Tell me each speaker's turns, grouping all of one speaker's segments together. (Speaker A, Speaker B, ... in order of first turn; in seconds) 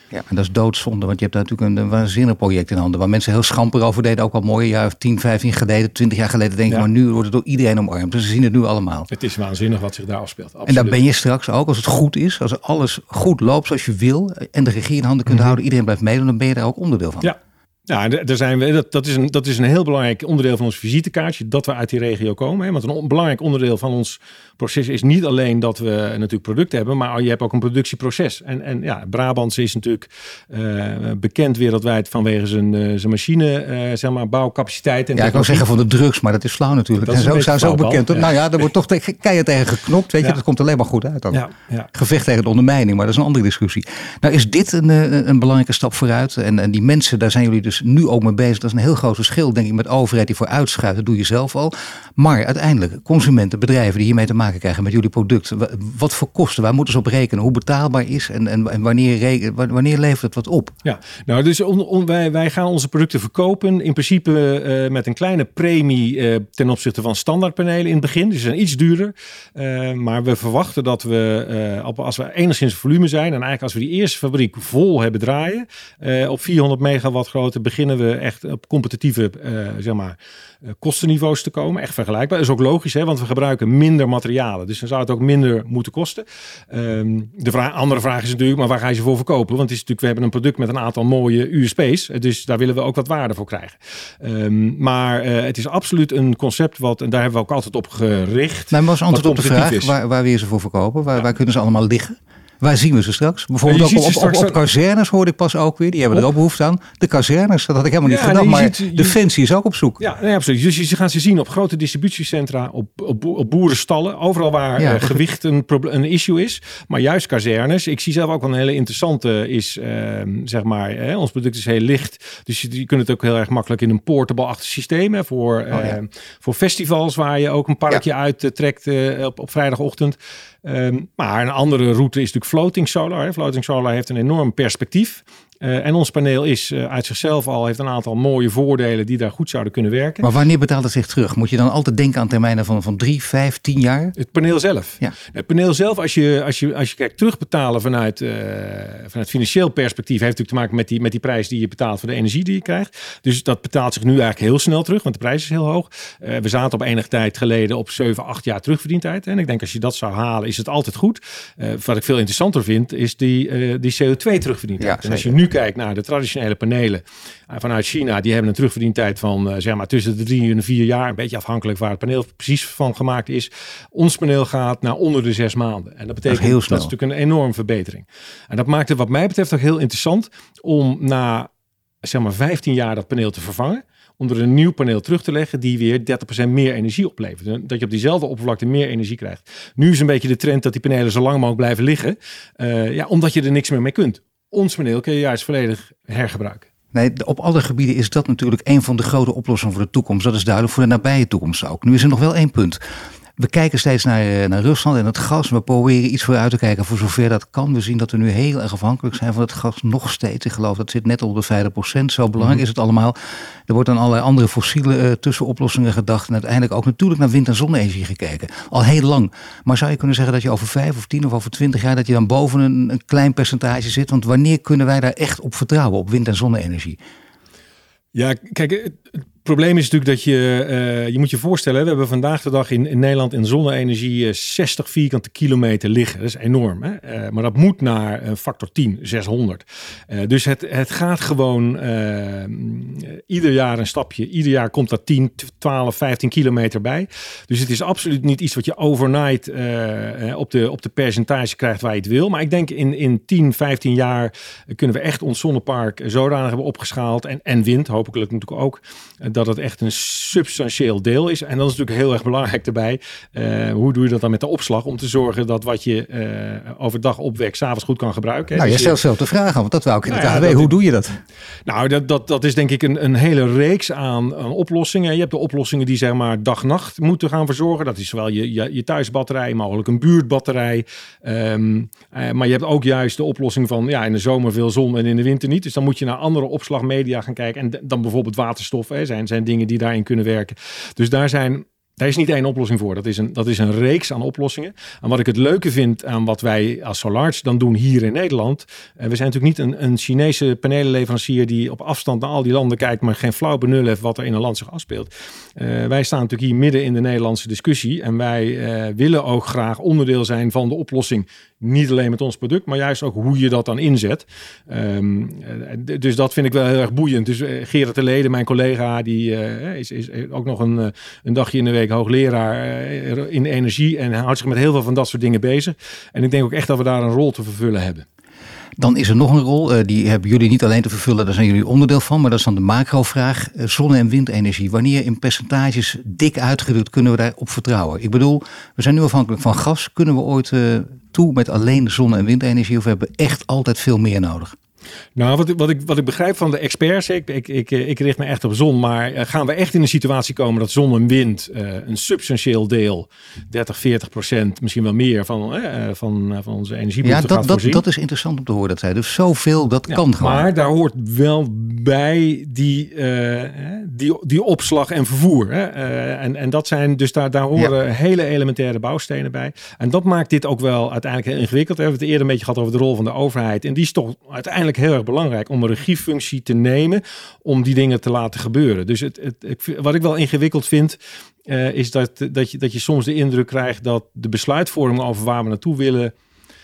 Speaker A: 0.1-9.1, 10.7-17.3, 35.1-41.4, 41.9-60.7, 98.7-110.0, 114.8-115.2, 140.2-144.1, 164.8-165.4, 176.3-176.9, 196.9-202.8, 203.4-227.0, 268.6-271.2, 328.8-344.5, 357.0-360.5
Speaker B: 9.1-11.0, 15.3-15.6, 17.9-35.6, 37.0-38.4, 41.3-41.9, 60.8-80.2, 80.8-99.9, 103.6-104.6, 108.0-109.2, 110.0-140.3, 144.2-181.5, 182.0-196.7, 228.1-269.0, 270.1-270.7, 271.6-328.0, 345.1-357.8, 359.9-386.1